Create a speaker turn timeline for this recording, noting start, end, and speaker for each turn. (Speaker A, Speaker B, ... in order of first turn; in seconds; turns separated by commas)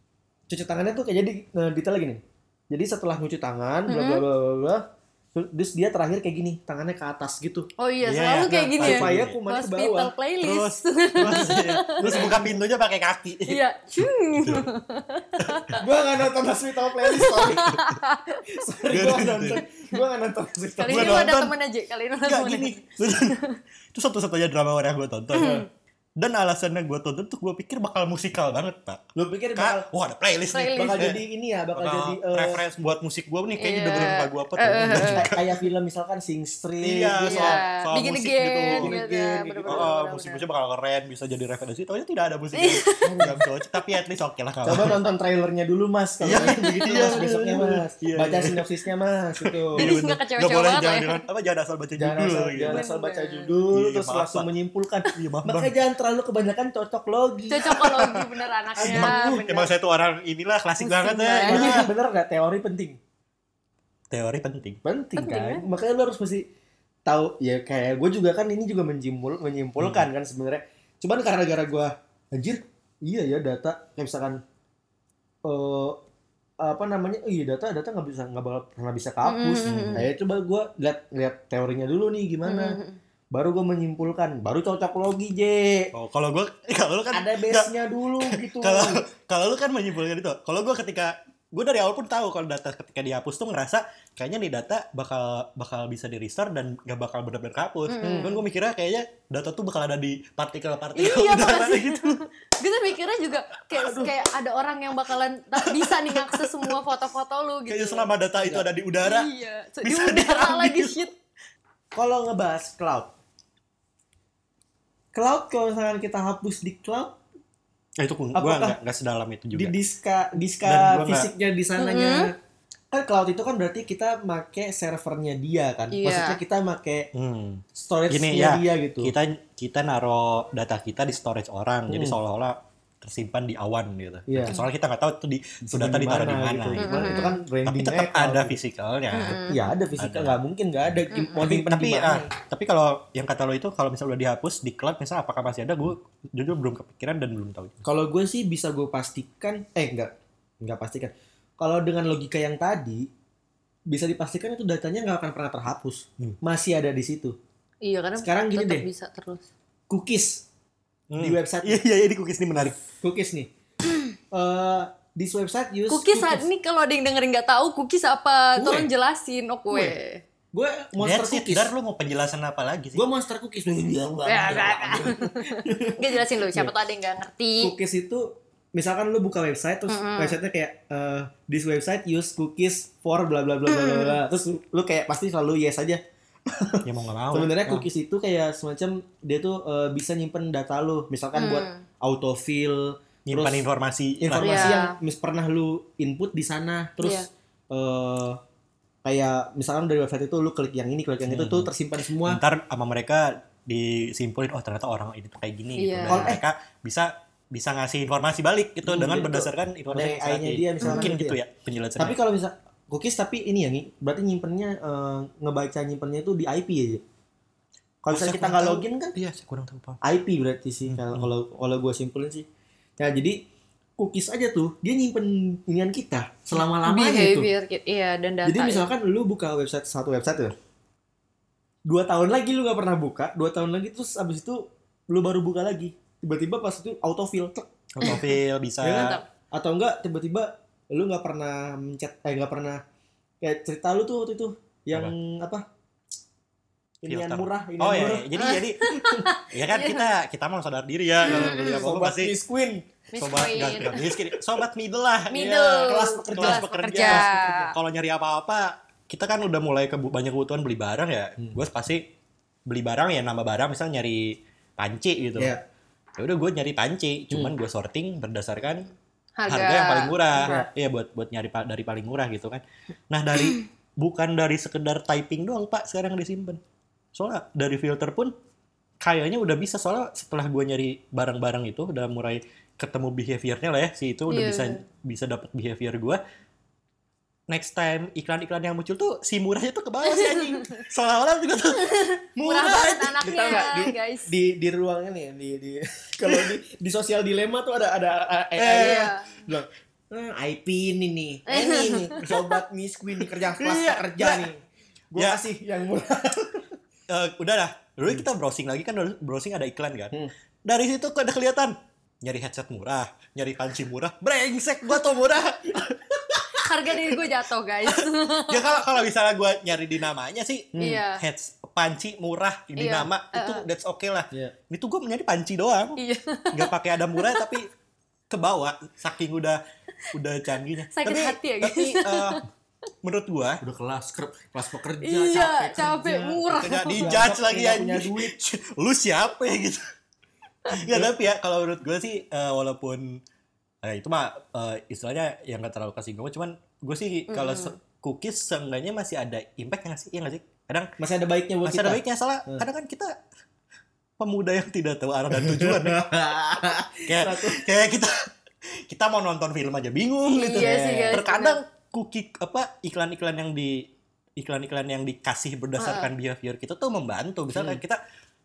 Speaker A: 0.5-7.7, Speaker B: 3.9-4.2, Speaker B: 7.8-12.4, Speaker C: 8.0-9.4, Speaker A: 8.5-10.1, Speaker C: 10.4-13.6, Speaker A: 11.2-12.6, Speaker B: 13.4-15.8, Speaker C: 14.3-14.7, Speaker C: 15.4-15.8, Speaker A: 15.8-17.8, Speaker B: 17.0-18.7, Speaker C: 17.3-17.9, Speaker A: 18.5-21.3, Speaker C: 18.9-19.6, Speaker B: 19.6-20.0, Speaker B: 20.8-23.6, Speaker C: 20.9-21.5, Speaker C: 22.2-25.6, Speaker B: 25.3-25.6, Speaker A: 25.4-25.6, Speaker C: 26.2-29.0, Speaker A: 29.1-29.9, Speaker C: 29.6-31.2, Speaker B: 30.5-31.1, Speaker A: 30.7-32.6, Speaker C: 31.7-35.4, Speaker B: 33.6-35.3, Speaker A: 34.9-37.6, Speaker C: 36.8-38.9, Speaker B: 37.2-40.4, Speaker A: 38.7-39.9, Speaker C: 39.7-45.0, Speaker B: 42.5-43.5, Speaker A: 43.0-43.4, Speaker A: 44.6-49.9, Speaker C: 46.2-48.7, Speaker B: 46.9-47.1, Speaker C: 49.4-52.8, Speaker B: 49.8-51.2, Speaker A: 52.0-58.0, Speaker B: 52.6-53.5, Speaker C: 53.7-54.5, Speaker C: 55.1-55.7, Speaker B: 57.5-59.7, Speaker C: 57.6-61.9, Speaker A: 58.8-59.4, Speaker B: 60.8-61.8, Speaker A: 61.5-63.0, Speaker C: 64.1-64.8, Speaker A: 64.8-66.5, Speaker B: 65.2-65.6, Speaker A: 67.0-74.4, Speaker C: 69.8-70.1, Speaker A: 75.4-76.0, Speaker A: 76.6-82.8, Speaker B: 79.2-80.1, Speaker C: 79.6-80.1, Speaker B: 82.4-83.0, Speaker A: 83.3-85.9, Speaker C: 85.9-102.3, Speaker A: 87.1-89.0, Speaker B: 97.9-98.4, Speaker A: 98.0-98.4, Speaker B: 100.9-108.1, Speaker A: 103.8-104.1, Speaker C: 105.6-106.7, Speaker C: 107.7-109.3, Speaker B: 109.0-111.1, Speaker C: 109.8-111.1, Speaker A: 111.9-113.1, Speaker A: 115.1-117.2, Speaker C: 118.0-119.8, Speaker A: 118.3-118.8, Speaker A: 119.5-122.3, Speaker C: 120.6-121.3, Speaker B: 121.8-122.3, Speaker A: 122.9-127.1, Speaker B: 125.9-126.4, Speaker C: 127.1-139.4, Speaker A: 127.7-129.1, Speaker A: 131.9-132.2, Speaker A: 134.3-134.6, Speaker A: 135.6-138.6, Speaker B: 136.8-137.4, Speaker B: 139.1-139.7, Speaker A: 139.5-142.3, Speaker C: 140.0-140.4, Speaker B: 141.1-141.4, Speaker C: 141.4-147.8, Speaker A: 147.8-153.1, Speaker A: 153.9-157.4, Speaker B: 157.8-159.4, Speaker A: 158.2-158.9, Speaker A: 159.9-160.4, Speaker C: 161.1-162.8, Speaker A: 161.2-161.8, Speaker A: 163.0-163.5, Speaker A: 164.3-166.4, Speaker B: 165.9-170.2, Speaker A: 168.6-168.9, Speaker A: 170.5-171.7, Speaker C: 171.0-173.0, Speaker A: 172.9-176.7, Speaker B: 174.2-177.7, Speaker A: 177.6-193.6, Speaker B: 179.9-180.4, Speaker B: 183.7-184.2, Speaker C: 186.8-187.9, Speaker B: 191.3-191.8, Speaker C: 193.2-194.8, Speaker A: 194.2-198.4, Speaker B: 194.4-194.9, Speaker B: 197.0-197.3, Speaker A: 199.0-202.4, Speaker C: 201.2-201.7, Speaker C: 202.2-212.2, Speaker B: 205.8-206.3, Speaker A: 206.1-206.4, Speaker A: 208.8-211.4, Speaker B: 210.8-211.1, Speaker A: 212.0-217.0, Speaker A: 218.0-219.2, Speaker C: 218.1-220.0, Speaker A: 220.0-222.4, Speaker C: 220.9-221.3, Speaker A: 223.0-223.4, Speaker A: 224.0-227.5, Speaker B: 226.8-228.9, Speaker A: 228.4-230.5, Speaker A: 231.9-238.2, Speaker C: 237.9-239.2, Speaker A: 238.8-242.8, Speaker B: 238.9-239.2, Speaker A: 243.4-245.6, Speaker A: 247.0-249.3, Speaker C: 247.1-248.9, Speaker B: 248.4-250.1, Speaker C: 249.5-252.3, Speaker B: 251.2-251.9, Speaker A: 251.2-252.9, Speaker B: 253.1-254.1, Speaker C: 253.2-262.0, Speaker A: 253.8-254.3, Speaker B: 255.3-257.7, Speaker A: 255.4-257.7, Speaker C: 262.7-265.5, Speaker A: 265.4-265.6, Speaker C: 266.2-268.9, Speaker B: 269.4-270.6, Speaker C: 269.5-276.6, Speaker A: 270.4-270.7, Speaker C: 277.1-278.3, Speaker C: 279.0-286.2, Speaker B: 284.3-284.8, Speaker C: 287.5-293.8, Speaker B: 290.0-290.9, Speaker B: 291.7-294.3, Speaker A: 293.2-306.7, Speaker C: 296.2-296.5, Speaker C: 298.6-299.1, Speaker B: 298.7-299.4, Speaker B: 301.5-302.4, Speaker C: 303.6-304.5, Speaker C: 305.1-305.4, Speaker C: 307.1-310.1, Speaker C: 310.6-317.2, Speaker B: 316.6-318.9, Speaker C: 317.8-326.0, Speaker A: 320.7-321.0, Speaker B: 320.8-321.2, Speaker B: 322.8-323.6, Speaker B: 326.0-327.6, Speaker C: 326.5-327.7, Speaker C: 328.3-329.6, Speaker C: 330.1-332.4, Speaker B: 330.9-332.4, Speaker C: 333.0-333.6, Speaker A: 333.6-338.3, Speaker B: 335.0-337.2, Speaker C: 336.5-339.9, Speaker C: 340.7-343.2, Speaker A: 340.8-341.1, Speaker C: 343.8-350.9, Speaker B: 347.3-347.7, Speaker A: 351.0-352.6, Speaker C: 351.6-353.1, Speaker C: 354.2-356.1, Speaker A: 355.3-357.6, Speaker C: 357.0-368.0, Speaker B: 360.3-361.6, Speaker A: 360.6-361.2, Speaker B: 365.8-366.1, Speaker A: 367.5-367.8